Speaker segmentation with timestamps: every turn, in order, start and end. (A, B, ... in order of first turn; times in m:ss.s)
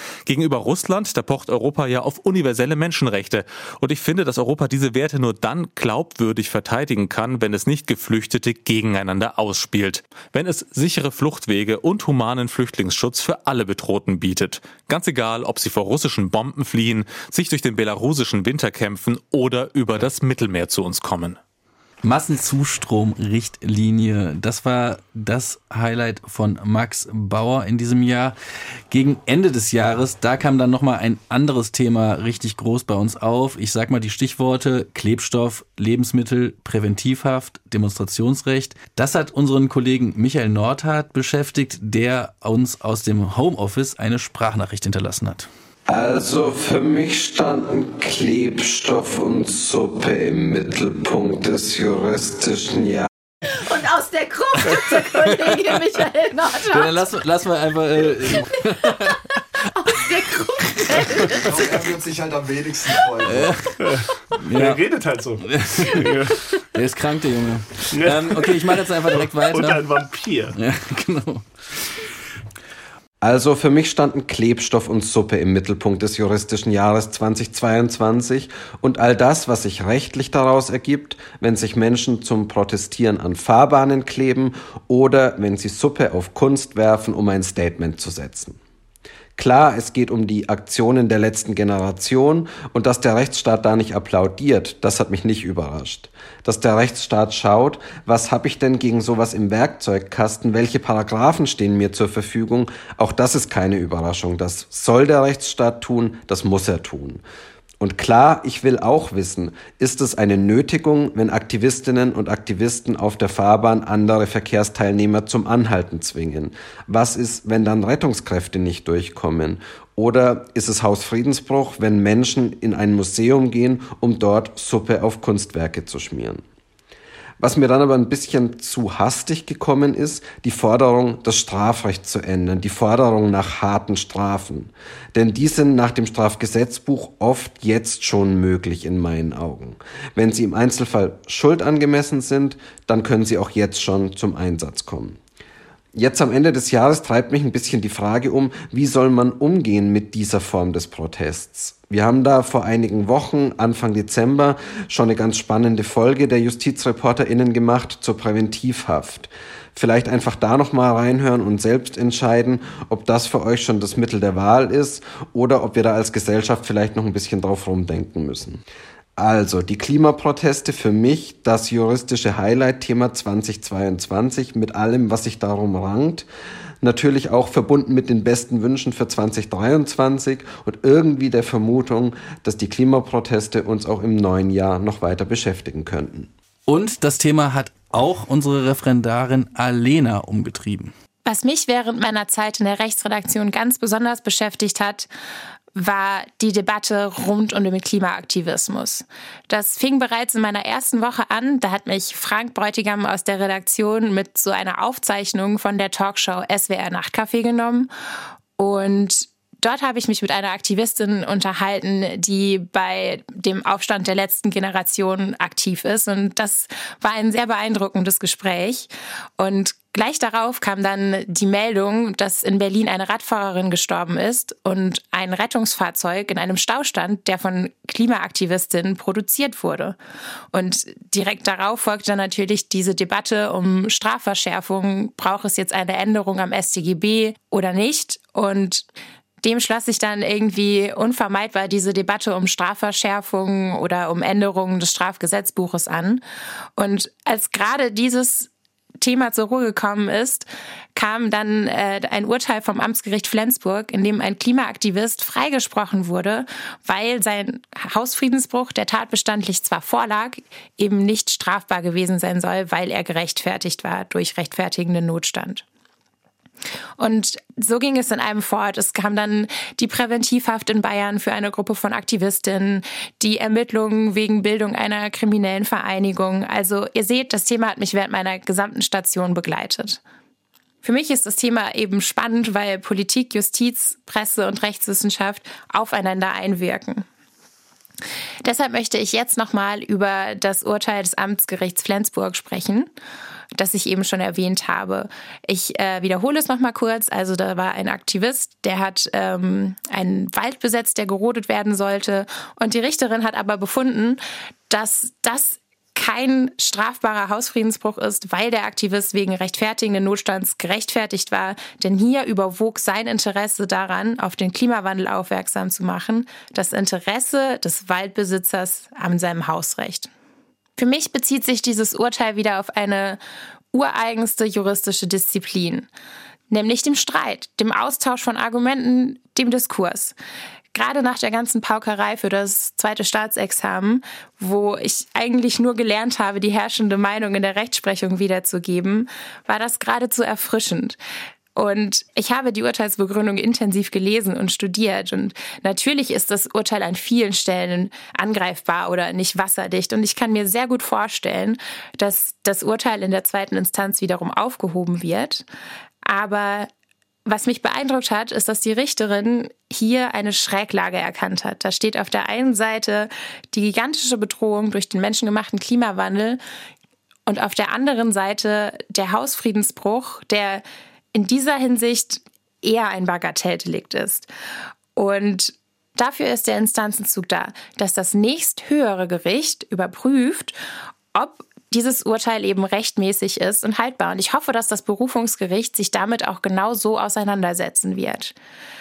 0:00.3-0:21.4 A
0:22.0-0:28.4 B
0:28.9-0:45.5 B
0:45.9-0:53.1 C
0:53.5-0:57.1 D
0:56.7-0:59.4 B
0:58.3-0:59.1 D
0:59.9-1:01.5 D
1:00.6-1:01.4 B
1:01.4-1:03.6 E
1:03.2-1:04.8 B
1:03.8-1:06.4 F
1:05.4-1:09.9 B
1:07.9-1:08.6 F
1:09.4-1:10.6 F
1:10.5-1:11.5 B
1:13.2-1:28.6 C
1:29.4-1:47.2 C
1:47.8-2:06.4 C
2:07.4-2:25.2 C
2:26.0-2:48.6 C
2:49.2-2:56.3 C
2:56.8-3:06.3 C
3:06.7-3:10.9 B
3:11.2-3:15.1 G
3:15.7-3:27.9 G
3:28.6-3:50.0 G
3:50.5-3:58.9 G
3:59.4-4:06.2 G
4:06.8-4:08.5 G
4:09.0-4:25.6 G
4:27.0-4:40.0 G
4:40.8-4:47.1 G
4:48.4-4:52.9 G
4:53.6-5:20.1 G
5:20.8-5:23.2 G
5:23.7-5:25.9 G
5:26.5-5:30.2 G
5:30.7-5:41.0 G
5:41.6-5:55.5 G
5:56.1-5:56.7 G
5:57.3-6:06.4 G
6:07.3-6:14.3 G
6:15.0-6:20.6 G
6:21.1-6:28.4 G